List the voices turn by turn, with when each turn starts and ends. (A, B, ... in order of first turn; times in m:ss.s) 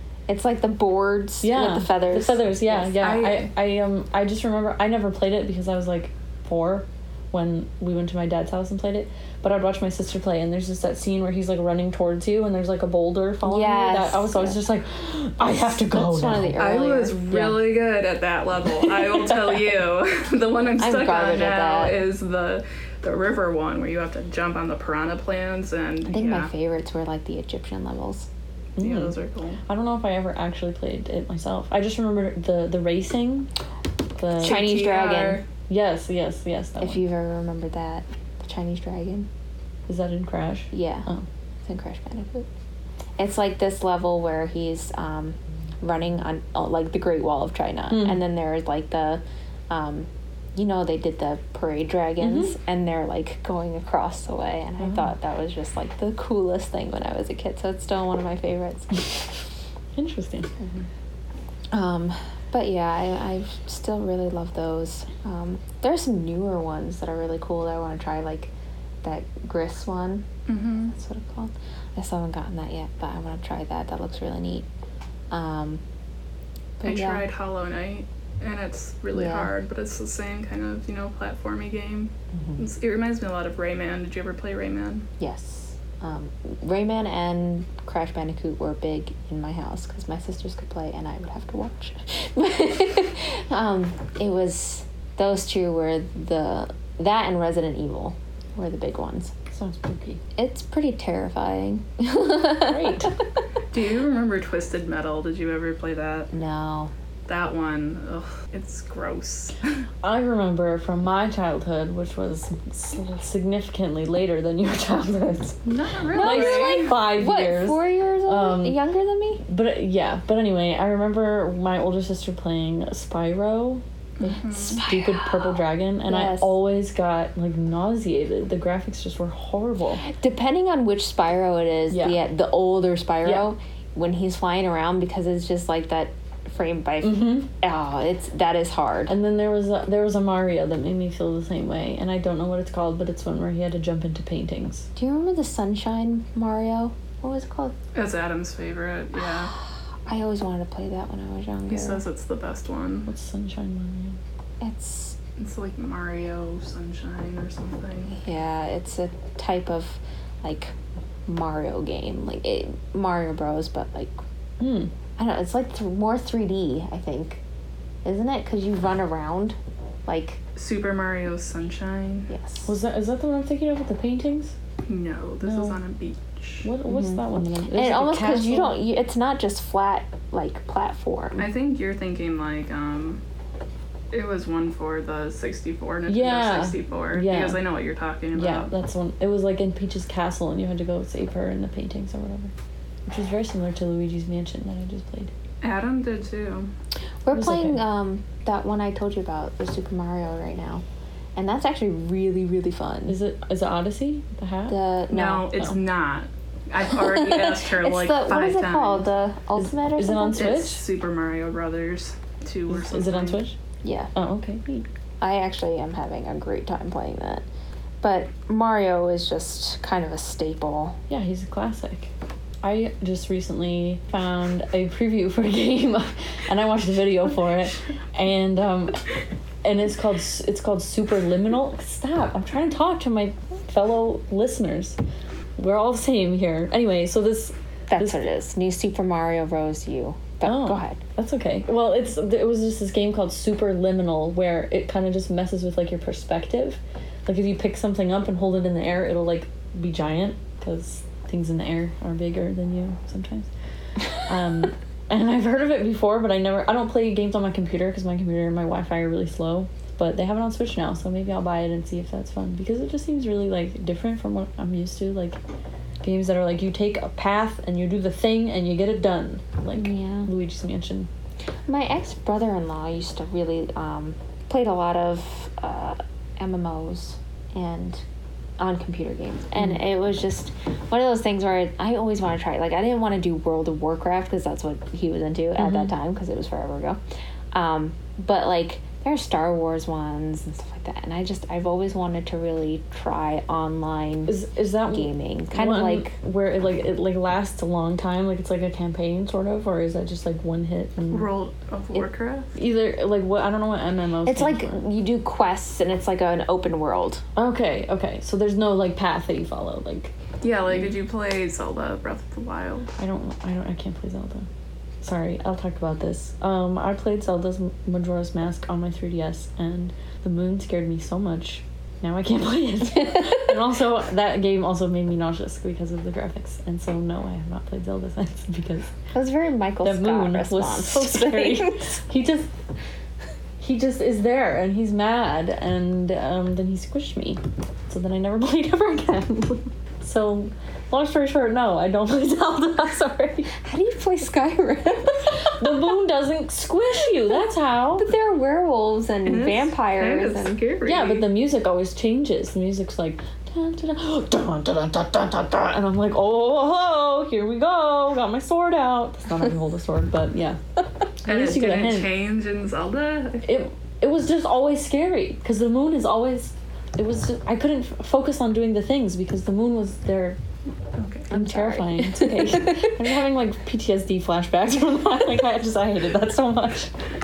0:00.3-0:02.9 A
0:01.4-0:16.6 B
0:03.0-0:03.4 C
0:13.4-0:14.6 A
0:15.8-0:17.6 A
0:16.6-0:26.5 C
0:20.8-0:22.0 A
0:26.1-0:28.3 A
0:28.8-0:29.6 C
0:28.8-0:29.1 B
0:29.7-0:33.5 B
0:34.2-0:34.7 B
0:34.4-0:35.4 A
0:34.4-0:35.4 C
0:35.7-0:37.0 B
0:36.8-0:39.3 A
0:39.9-0:41.2 B
0:40.7-0:41.1 A
0:41.6-0:42.5 A
0:43.2-0:59.3 A
0:47.9-0:48.2 B
0:52.2-0:52.5 B
0:54.8-0:55.1 B
0:59.9-1:00.8 B
1:01.7-1:08.5 A
1:09.0-1:10.2 A
1:10.5-1:10.9 C
1:10.9-1:14.7 A
1:15.3-1:15.8 A
1:16.8-1:17.2 A
1:16.8-1:25.1 C
1:19.1-1:19.5 A
1:22.3-1:22.6 A
1:25.2-1:39.3 A
1:39.5-1:40.2 B
1:40.4-1:43.1 A
1:42.6-1:43.1 B
1:43.7-1:46.3 C
1:46.3-1:46.9 A
1:47.3-1:49.6 C
1:50.0-1:55.6 B
1:55.6-1:56.9 C
1:56.1-1:59.4 A
1:56.2-1:58.8 B
1:59.4-2:03.8 B
2:04.2-2:04.8 C
2:04.6-2:06.5 A
2:04.7-2:10.0 B
2:10.0-2:19.1 A
2:11.9-2:12.2 B
2:17.0-2:17.5 B
2:19.1-2:24.9 B
2:25.0-2:27.7 A
2:27.9-2:29.5 C
2:30.0-2:32.0 A
2:31.7-2:33.1 C
2:33.1-2:34.2 B
2:34.6-2:35.2 A
2:35.4-2:38.1 C
2:38.1-2:40.7 A
2:41.3-2:44.2 A
2:44.6-2:44.9 B
2:45.2-2:47.4 A
2:48.0-2:50.4 A
2:50.6-2:52.3 C
2:52.3-2:52.7 A
2:52.6-2:54.5 B
2:54.8-2:56.7 C
2:55.4-2:55.8 B
2:56.6-2:58.8 B
2:56.9-2:57.2 A
2:57.7-3:01.5 A
3:01.4-3:03.2 C
3:04.1-3:08.7 C
3:06.1-3:07.6 B
3:08.3-3:12.5 B
3:13.1-3:15.3 B
3:15.6-3:16.7 C
3:17.2-3:20.8 A
3:17.3-3:17.8 B
3:21.4-3:23.2 A
3:23.1-3:24.8 B
3:24.7-3:25.5 A
3:25.1-3:29.0 C
3:27.0-3:30.6 A
3:29.6-3:30.8 B
3:30.4-3:33.4 C
3:32.7-3:33.6 B
3:33.8-3:34.1 A
3:34.1-3:34.9 B
3:35.2-3:37.4 A
3:38.0-3:41.0 A
3:41.1-3:42.1 B
3:42.6-3:49.1 B
3:49.6-3:55.0 B
3:55.6-3:58.2 B
3:57.9-4:01.0 A
4:00.4-4:13.5 B
4:14.2-4:25.4 B
4:26.0-4:31.1 B
4:29.7-4:30.3 A
4:31.7-4:38.0 A
4:38.6-4:47.0 A
4:45.6-4:45.9 B
4:47.5-4:56.1 A
4:54.3-5:01.3 B
5:01.1-5:02.5 C
5:02.6-5:04.8 B
5:04.2-5:07.2 A
5:07.4-5:10.1 B
5:10.4-5:12.9 C
5:13.0-5:14.5 B
5:15.0-5:28.9 B
5:29.1-5:31.9 A
5:29.8-5:32.5 B
5:33.6-5:43.5 B
5:43.6-5:45.6 A
5:45.3-5:48.1 B
5:48.0-5:50.6 A
5:49.2-5:51.3 C
5:50.8-6:00.6 B
6:01.2-6:02.1 B
6:01.2-6:03.6 C
6:03.4-6:10.4 B
6:11.0-6:11.3 C
6:11.3-6:12.9 A
6:11.3-6:16.9 B